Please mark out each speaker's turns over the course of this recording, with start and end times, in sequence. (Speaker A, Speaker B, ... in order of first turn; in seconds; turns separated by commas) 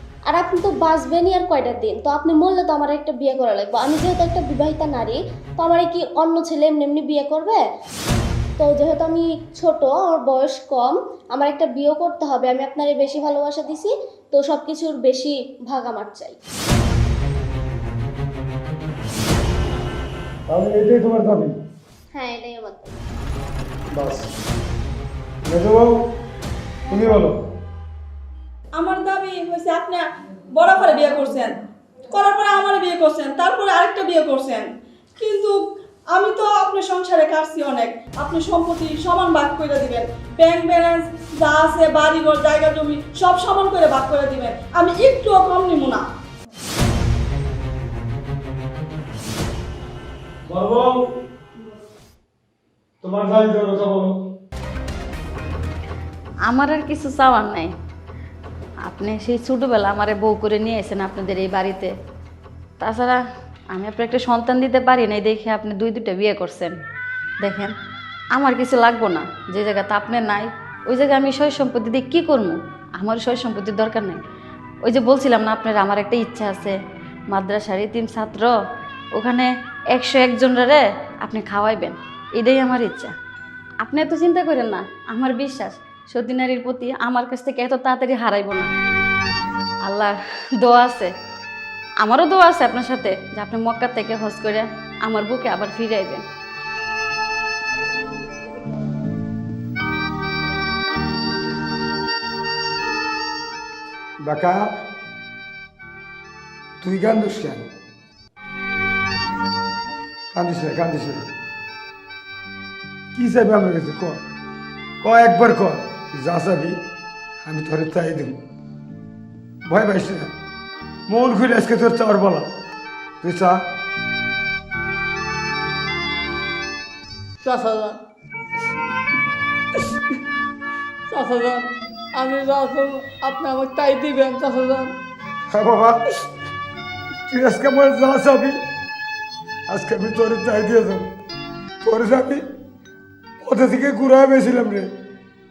Speaker A: 0.3-7.6, Speaker A: 8.6-16.4, Speaker B: 20.5-21.6, Speaker A: 22.1-22.9, Speaker B: 23.9-24.3, Speaker B: 25.5-25.9, Speaker B: 26.9-27.4, Speaker C: 28.8-31.6, Speaker C: 32.1-35.6, Speaker C: 36.1-46.0, Speaker B: 50.5-51.0, Speaker B: 53.0-54.1, Speaker D: 56.5-57.7, Speaker D: 58.8-61.9, Speaker D: 62.8-63.2, Speaker D: 63.7-66.8, Speaker D: 67.4-67.7, Speaker D: 68.3-74.2, Speaker D: 74.8-76.8, Speaker D: 77.3-78.5, Speaker D: 79.2-83.1, Speaker D: 83.8-88.7, Speaker D: 89.8-91.1, Speaker D: 92.0-96.2, Speaker B: 104.2-104.7, Speaker B: 106.8-107.7, Speaker B: 110.3-111.3, Speaker B: 113.1-114.2, Speaker B: 115.0-116.8, Speaker B: 117.4-118.4, Speaker B: 119.7-120.3, Speaker B: 121.1-122.5, Speaker B: 123.2-123.6, Speaker E: 127.4-128.0, Speaker E: 131.1-134.9, Speaker B: 135.5-136.0, Speaker B: 137.3-138.6, Speaker B: 139.7-141.1, Speaker B: 141.8-142.4, Speaker B: 143.4-144.9